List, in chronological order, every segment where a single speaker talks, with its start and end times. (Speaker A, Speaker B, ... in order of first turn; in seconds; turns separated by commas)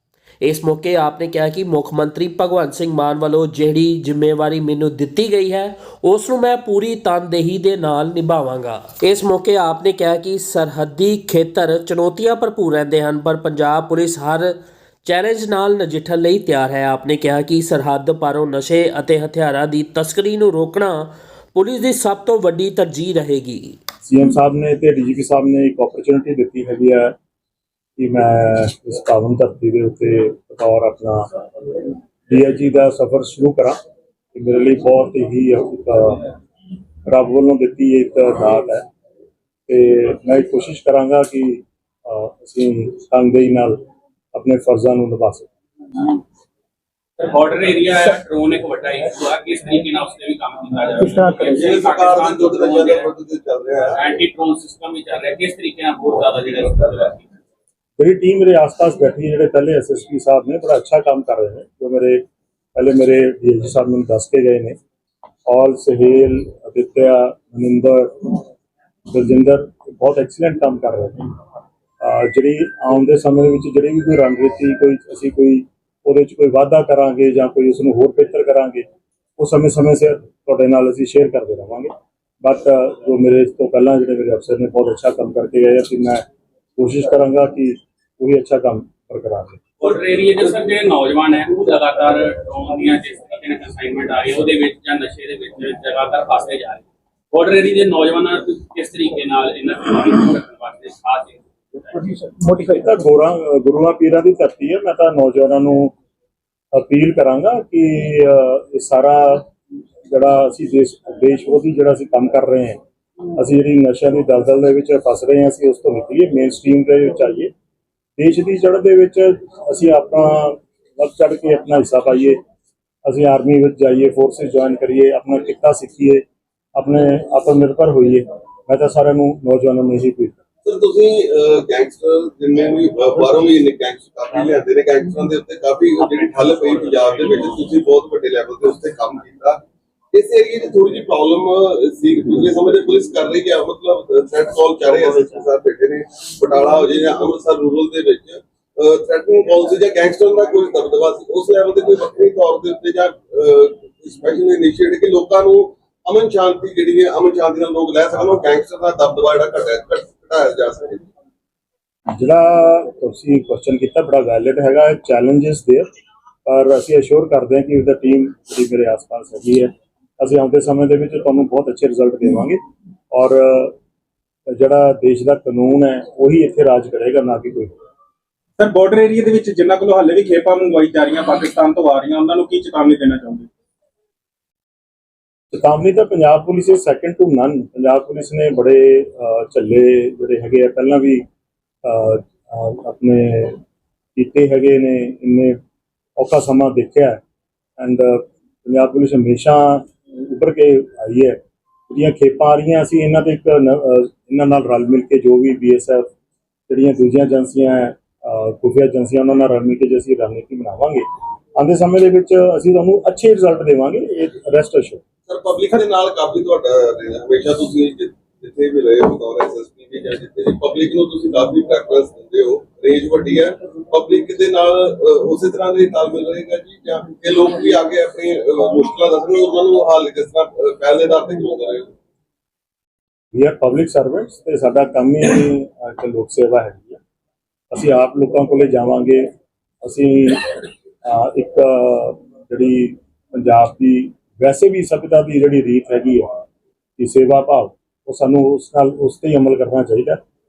Speaker A: 0.4-14.5, Speaker A: 15.0-23.8, Speaker B: 24.0-27.2, Speaker B: 28.0-33.8, Speaker B: 34.3-36.4, Speaker B: 37.0-38.9, Speaker B: 39.7-45.5, Speaker C: 47.2-53.1, Speaker D: 51.5-54.0, Speaker C: 53.9-57.3, Speaker B: 58.0-64.8, Speaker B: 65.5-68.4, Speaker B: 69.1-71.3, Speaker B: 72.0-78.8, Speaker B: 79.4-86.2, Speaker B: 86.8-89.6, Speaker C: 89.8-102.2, Speaker B: 102.6-105.9, Speaker B: 106.7-109.5, Speaker B: 110.1-112.8, Speaker B: 113.3-117.5, Speaker B: 118.2-122.4, Speaker B: 123.0-126.2, Speaker B: 126.8-130.4, Speaker D: 130.6-139.6, Speaker D: 140.1-161.1, Speaker B: 162.1-165.9, Speaker B: 166.4-173.8, Speaker B: 174.5-177.7, Speaker E: 178.6-183.5, Speaker B: 185.5-191.2, Speaker B: 191.8-193.6, Speaker B: 194.2-195.6, Speaker B: 196.2-197.2, Speaker B: 197.8-206.1, Speaker B: 206.7-215.0, Speaker D: 215.3-231.9, Speaker B: 233.3-237.0, Speaker B: 237.7-239.3, Speaker B: 239.8-246.4, Speaker B: 247.0-250.2